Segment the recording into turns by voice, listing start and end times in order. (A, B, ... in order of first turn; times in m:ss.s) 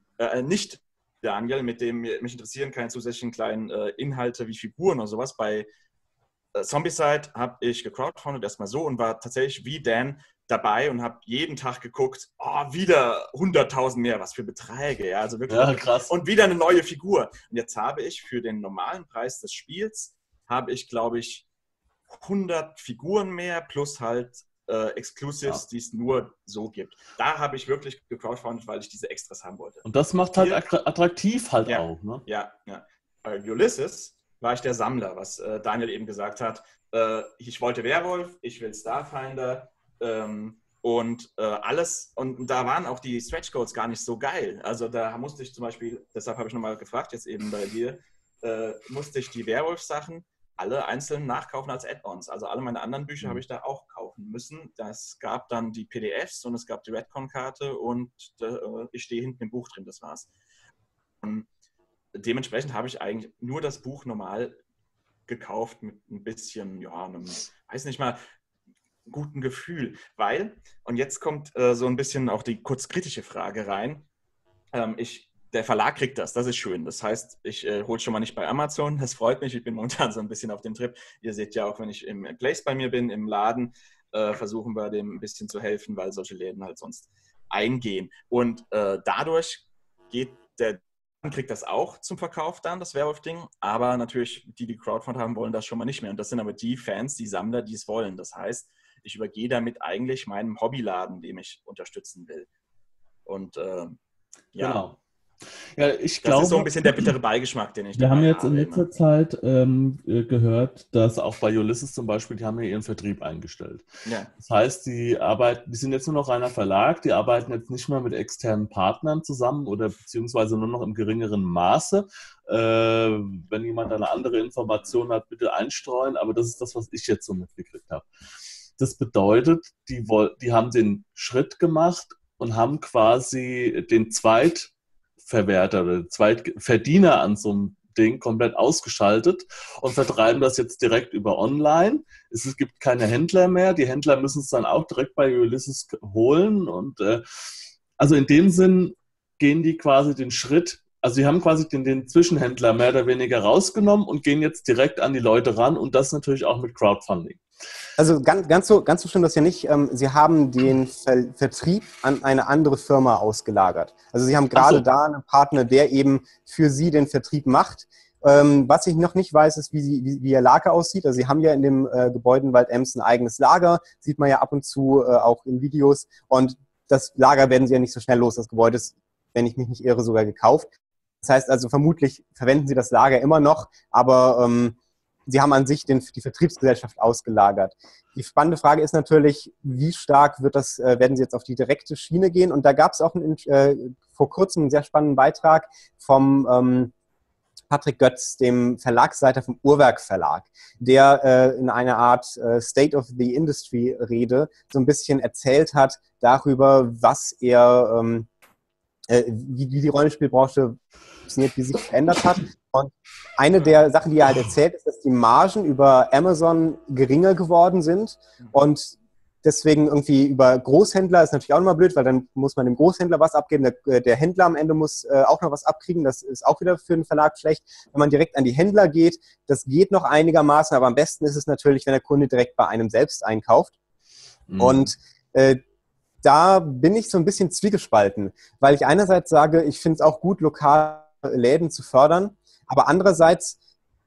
0:00.2-0:05.7 A
0:06.5-0:21.5 A
0:15.5-0:16.1 B
0:22.1-0:30.6 A
0:29.8-0:32.2 B
0:31.6-1:00.3 A
1:01.2-1:01.5 A
1:02.1-1:04.6 A
1:05.3-1:08.2 A
1:09.1-1:14.0 A
1:14.7-1:42.5 A
1:43.2-1:44.0 A
1:44.5-1:44.8 A
1:44.6-1:45.0 B
1:45.8-1:47.1 B
1:46.2-1:48.9 A
1:48.0-1:53.9 B
1:54.0-1:54.3 A
1:54.4-2:08.1 B
2:08.8-2:14.7 B
2:15.2-2:27.2 B
2:28.0-2:37.4 B
2:38.0-3:00.7 C
2:44.5-2:44.8 B
3:01.2-3:04.8 C
3:05.3-3:16.9 C
3:17.7-3:28.3 C
3:29.1-3:53.7 C
3:54.5-3:54.9 B
3:54.6-3:55.6 C
3:56.2-4:03.6 C